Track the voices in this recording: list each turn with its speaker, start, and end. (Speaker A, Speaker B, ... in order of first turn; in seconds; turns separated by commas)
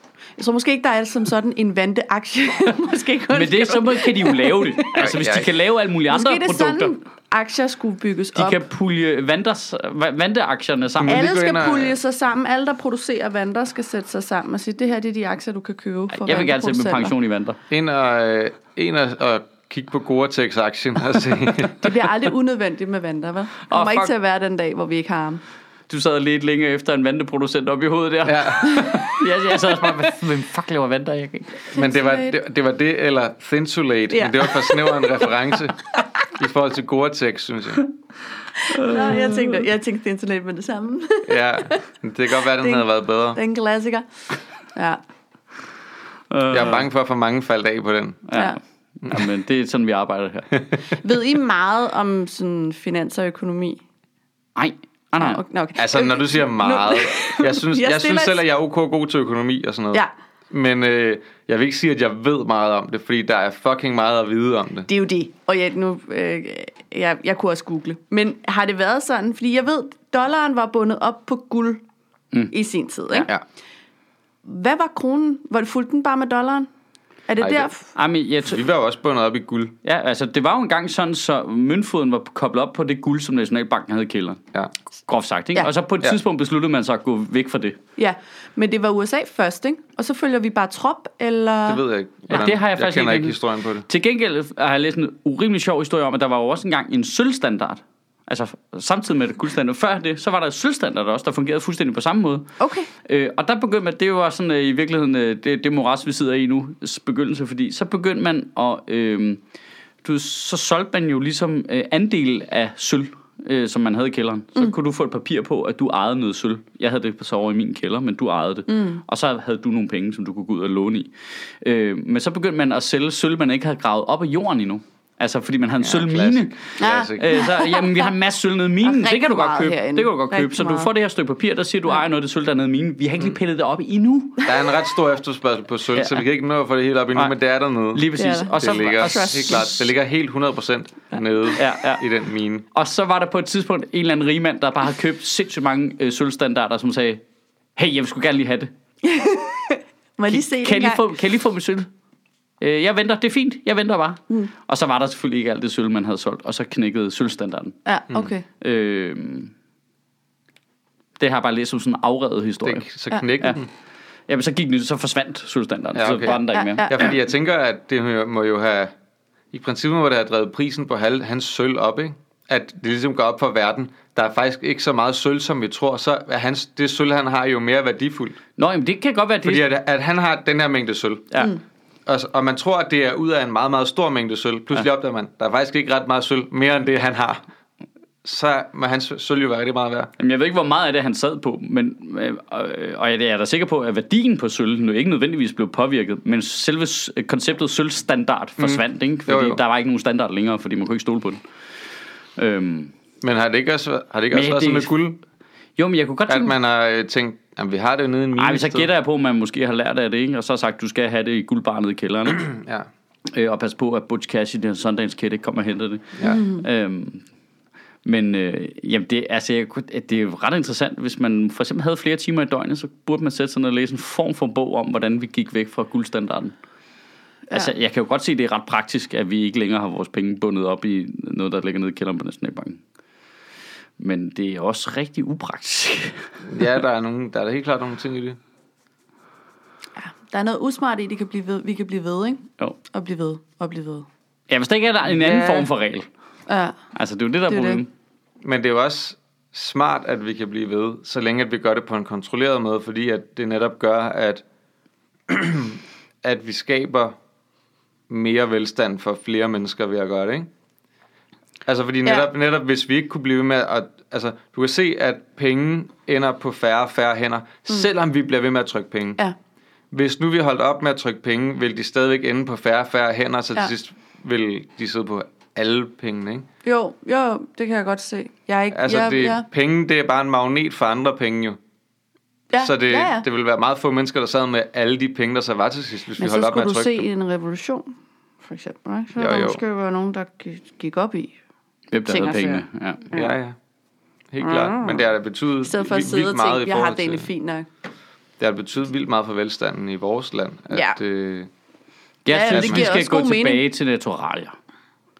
Speaker A: 0.4-4.9, Speaker B: 3.3-6.9, Speaker C: 5.0-5.5, Speaker A: 6.1-8.6, Speaker B: 8.3-11.2, Speaker C: 11.0-12.0, Speaker A: 11.1-17.1, Speaker B: 16.1-17.6, Speaker C: 17.7-21.9, Speaker A: 21.8-25.4, Speaker B: 23.7-24.1, Speaker B: 25.9-31.7, Speaker C: 28.2-29.1, Speaker A: 31.7-32.4, Speaker C: 31.7-35.8, Speaker A: 34.1-35.3, Speaker C: 36.3-37.9, Speaker A: 38.6-41.8, Speaker B: 38.7-39.6, Speaker C: 41.2-43.4, Speaker A: 42.4-44.1, Speaker A: 44.8-45.0, Speaker B: 46.3-46.8, Speaker C: 46.5-48.2, Speaker B: 48.3-50.5, Speaker A: 51.0-53.8, Speaker B: 54.6-55.4, Speaker A: 55.2-58.4, Speaker C: 55.8-64.9, Speaker A: 64.9-71.8, Speaker A: 72.5-73.3, Speaker A: 74.5-76.7, Speaker A: 77.3-77.9, Speaker C: 77.4-77.7, Speaker B: 78.0-78.6, Speaker C: 78.4-79.8, Speaker B: 79.8-84.4, Speaker B: 85.1-87.8, Speaker A: 88.0-91.8, Speaker C: 91.7-93.9, Speaker B: 92.3-102.5, Speaker A: 102.6-102.9, Speaker B: 103.0-109.4, Speaker B: 110.0-134.5, Speaker A: 118.7-119.0, Speaker C: 125.8-127.4, Speaker A: 126.8-128.1, Speaker A: 128.8-130.9, Speaker C: 134.4-142.7, Speaker B: 135.9-136.2, Speaker B: 137.9-139.7, Speaker A: 138.2-139.8, Speaker B: 141.6-142.0, Speaker B: 142.7-147.2, Speaker B: 147.8-148.7, Speaker A: 149.0-151.1, Speaker B: 150.3-151.9, Speaker B: 152.6-157.8, Speaker A: 157.9-158.4, Speaker B: 158.6-159.5, Speaker B: 161.2-162.9, Speaker C: 162.6-163.7, Speaker B: 164.3-167.1, Speaker C: 165.9-168.9, Speaker A: 166.5-167.1, Speaker C: 169.5-178.4, Speaker B: 178.6-179.6, Speaker C: 179.4-181.5, Speaker C: 182.1-187.4, Speaker C: 188.2-190.1, Speaker B: 190.2-201.4, Speaker C: 198.6-199.6, Speaker B: 202.4-202.9, Speaker C: 203.2-205.2, Speaker B: 204.3-204.9, Speaker B: 205.8-206.5, Speaker C: 206.3-208.9, Speaker B: 208.4-212.5, Speaker C: 212.4-212.9, Speaker B: 213.3-217.2, Speaker A: 216.2-216.6, Speaker B: 218.1-226.6, Speaker B: 227.5-232.8, Speaker B: 234.0-236.2, Speaker C: 236.4-238.4, Speaker A: 240.0-244.1, Speaker B: 244.5-246.1, Speaker A: 245.1-245.7, Speaker A: 246.5-246.8, Speaker B: 246.9-247.9, Speaker A: 247.5-247.8, Speaker C: 248.4-254.4, Speaker C: 255.3-257.1, Speaker C: 258.1-260.5, Speaker C: 261.7-269.2, Speaker C: 269.9-276.5, Speaker A: 276.6-279.4, Speaker C: 278.7-281.6, Speaker A: 282.5-283.2, Speaker C: 282.6-287.1, Speaker A: 286.2-291.4, Speaker C: 289.2-289.6, Speaker B: 291.9-293.1, Speaker A: 292.1-293.4, Speaker C: 293.1-293.6, Speaker C: 294.3-297.3, Speaker A: 294.4-295.1, Speaker A: 295.6-297.7, Speaker C: 298.4-301.5, Speaker A: 300.7-301.0, Speaker B: 302.2-304.6, Speaker A: 302.3-303.6, Speaker C: 302.5-303.0